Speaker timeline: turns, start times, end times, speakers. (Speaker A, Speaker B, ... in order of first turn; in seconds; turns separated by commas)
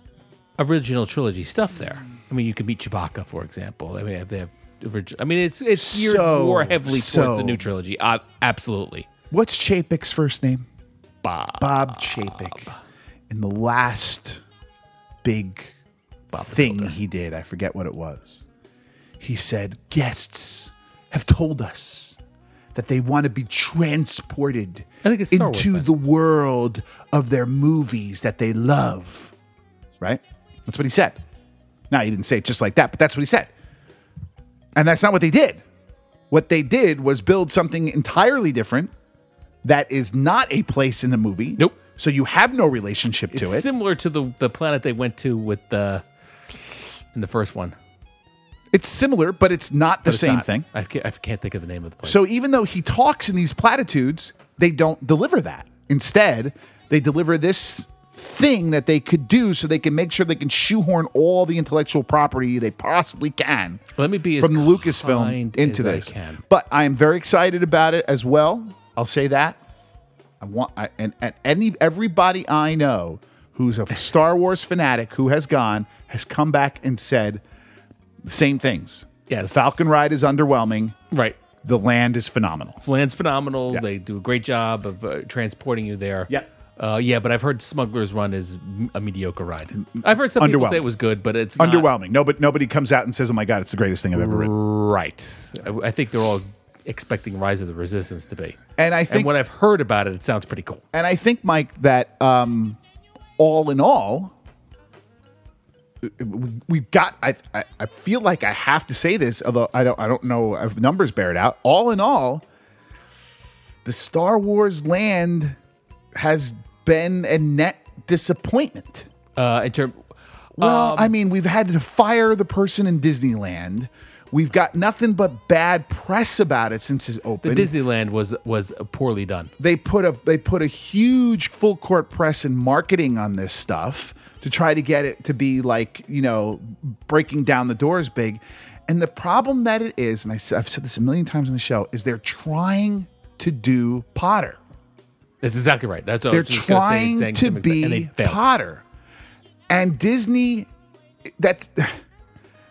Speaker A: 0.6-9.1, Speaker B: 5.8-7.7, Speaker B: 9.3-10.7, Speaker A: 11.2-12.8, Speaker B: 11.6-12.7, Speaker B: 13.3-14.4, Speaker B: 15.2-15.8, Speaker A: 16.3-16.9, Speaker B: 16.3-18.4, Speaker B: 19.2-22.2, Speaker B: 22.7-29.3, Speaker A: 25.0-25.9, Speaker B: 30.0-31.2, Speaker B: 31.9-33.5, Speaker B: 34.8-35.6, Speaker B: 36.3-38.9, Speaker B: 39.6-43.7, Speaker A: 43.3-47.8, Speaker B: 48.7-50.7, Speaker A: 50.0-52.2, Speaker B: 52.0-63.8, Speaker A: 64.0-66.4, Speaker B: 64.4-69.6, Speaker B: 70.4-77.4, Speaker B: 78.2-81.0, Speaker A: 79.3-79.9, Speaker A: 81.1-81.4, Speaker B: 81.6-82.8, Speaker A: 82.8-91.9, Speaker B: 89.8-90.9, Speaker B: 91.6-94.5, Speaker A: 94.1-100.8, Speaker B: 98.8-99.3, Speaker B: 100.9-102.8, Speaker B: 103.4-104.3, Speaker B: 106.0-112.4, Speaker B: 113.8-115.6, Speaker B: 116.2-119.1, Speaker A: 119.4-120.0, Speaker A: 120.6-121.1, Speaker B: 120.6-127.7, Speaker A: 127.4-129.5, Speaker B: 129.6-144.6, Speaker A: 145.4-148.4, Speaker B: 146.3-148.8, Speaker B: 149.7-150.7, Speaker B: 151.3-152.0